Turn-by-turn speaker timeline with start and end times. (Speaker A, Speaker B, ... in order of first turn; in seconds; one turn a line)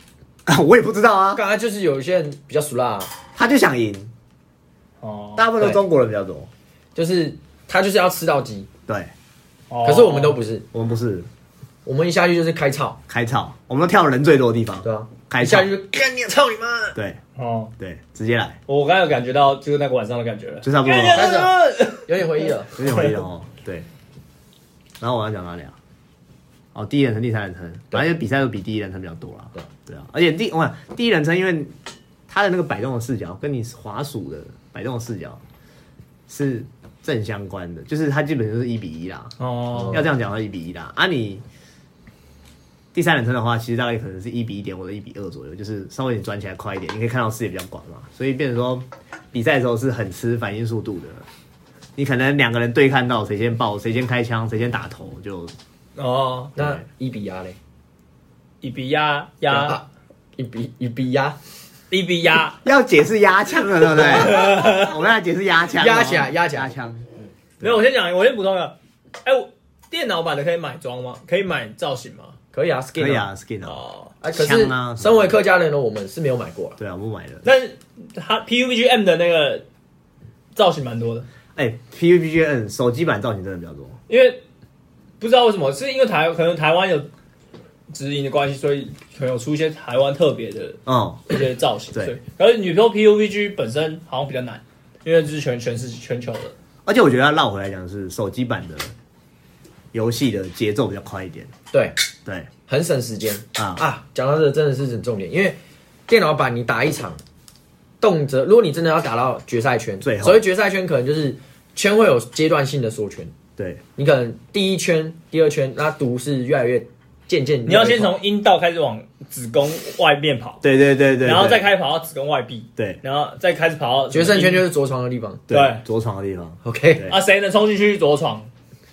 Speaker A: 0.5-1.4
Speaker B: 1.3-3.1
Speaker A: 3.3-4.1
Speaker C: 5.0-5.5
Speaker A: 5.4-6.5
Speaker B: 6.9-8.7
Speaker A: 8.9-9.1
Speaker C: 9.7-10.4
Speaker B: 9.8-10.7
Speaker A: 10.7-11.3
Speaker B: 11.8-13.0
Speaker A: 13.1-15.7
Speaker B: 14.8-16.9
Speaker A: 16.9-17.2
Speaker C: 17.4-17.7
Speaker A: 17.8-18.6
Speaker C: 18.7-23.2
Speaker A: 20.6-21.4
Speaker B: 21.1-22.8
Speaker A: 22.8-23.9
Speaker A: 25.0-25.7
Speaker A: 26.7-31.7
Speaker A: 32.3-35.4
Speaker A: 36.3-39.3
Speaker C: 39.4-40.1
Speaker B: 39.7-40.1
Speaker A: 39.9-41.4
Speaker A: 42.9-51.2
Speaker A: 52.0-55.5
Speaker C: 56.0-56.5
Speaker A: 56.5-56.8
Speaker B: 56.5-57.6
Speaker C: 58.6-59.8
Speaker B: 59.5-59.8
Speaker B: 60.4-61.4
Speaker C: 61.9-62.6
Speaker A: 62.6-67.1
Speaker C: 64.0-64.9
Speaker B: 65.8-66.7
Speaker C: 67.6-72.3
Speaker B: 72.5-73.3
Speaker A: 73.0-73.8
Speaker C: 73.6-74.1
Speaker B: 74.2-76.8
Speaker A: 74.3-75.4
Speaker A: 76.8-77.5
Speaker C: 77.4-79.6
Speaker C: 80.5-81.3
Speaker A: 81.5-84.0
Speaker C: 84.1-84.4
Speaker C: 85.2-87.1
Speaker C: 87.9-96.5
Speaker A: 90.8-91.3
Speaker A: 96.8-98.9
Speaker A: 99.9-101.5
Speaker B: 102.7-107.2
Speaker A: 103.5-103.8
Speaker B: 108.0-113.3
Speaker A: 110.0-110.4
Speaker A: 113.6-113.8
Speaker B: 114.0-118.2
Speaker C: 117.7-120.6
Speaker A: 120.6-121.6
Speaker C: 121.2-124.7
Speaker B: 124.1-125.4
Speaker A: 125.5-127.2
Speaker C: 125.5-125.8
Speaker B: 126.6-127.1
Speaker C: 127.1-128.5